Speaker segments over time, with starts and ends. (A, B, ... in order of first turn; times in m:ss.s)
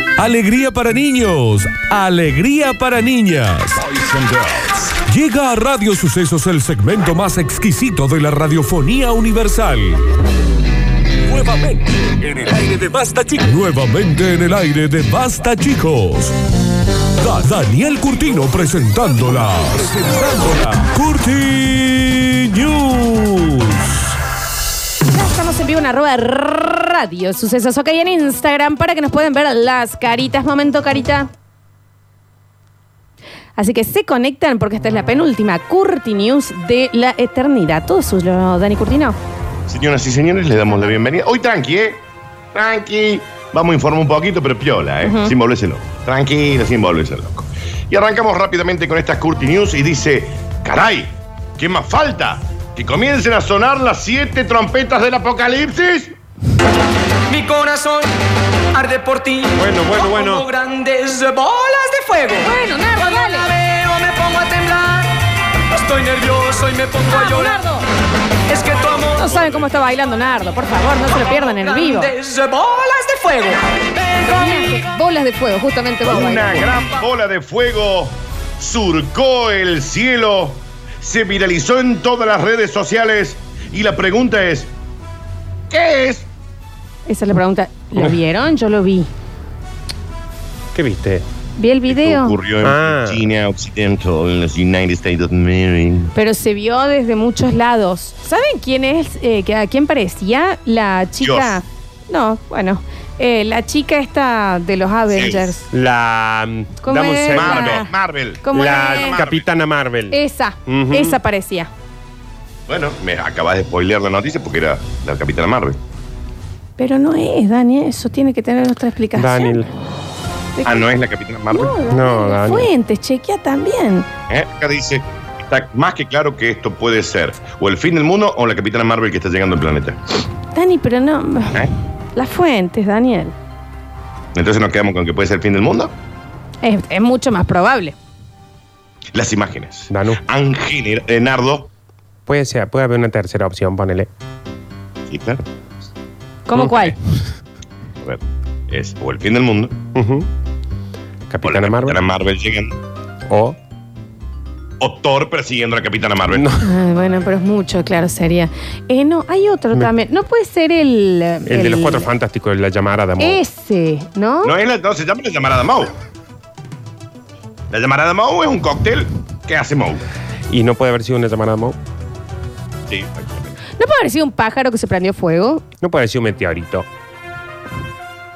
0:00.2-0:10.0 A
0:11.3-0:16.3 A
0:17.2-0:24.1 A
0:25.0-0:31.3 B
0:33.6-0:39.2 B
0:39.7-0:56.2 C
0:45.0-0:45.3 B
0:57.3-0:58.1 D
0:58.7-1:02.5 D
0:59.6-1:00.4 E
1:02.4-1:03.5 B
1:03.0-1:07.6 D
1:07.1-1:07.8 B
1:08.5-1:09.2 D
1:09.1-1:12.1 B
1:11.3-1:13.6 D
1:14.2-1:16.7 B
1:16.0-1:24.7 C
1:25.7-1:26.3 C
1:27.0-1:29.1 B
1:30.7-1:31.2 E
1:31.6-1:32.4 B
1:31.9-1:36.1 C
1:32.6-1:33.2 E
1:36.1-1:45.7 B
1:41.2-1:41.6 C
1:45.1-1:45.5 C
1:45.7-1:47.8 E
1:46.8-1:47.9 B
1:47.3-1:49.5 C
1:48.4-1:49.2 B
1:48.5-1:51.2 E
1:50.1-1:51.7 B
1:52.7-1:55.8 C
1:56.8-1:59.6 B
1:59.2-1:59.7 E
2:00.6-2:00.9 B
2:00.6-2:01.8 C
2:01.5-2:04.1 B
2:01.9-2:02.7 E
2:04.3-2:10.0 C
2:10.5-2:13.3 B
2:14.3-2:15.9 C
2:16.6-2:18.0 B
2:19.1-2:21.7 C
2:19.9-2:20.2 E
2:22.3-2:24.1 E
2:25.1-2:25.4 C
2:26.5-2:27.0 B
2:26.5-2:26.9 E
2:28.0-2:29.8 C
2:29.9-2:30.3 E
2:31.3-2:32.0 E
2:31.4-2:32.8 C
2:33.3-2:33.6 E
2:34.8-2:36.5 C
2:36.3-2:36.7 E
2:36.6-2:42.1 B
2:41.4-2:43.4 E
2:43.2-2:44.5 B
2:44.4-2:45.9 C
2:47.7-2:50.0 C
2:50.5-2:51.8 E
2:52.9-2:53.6 C
2:53.8-2:55.6 B
2:55.8-2:56.9 E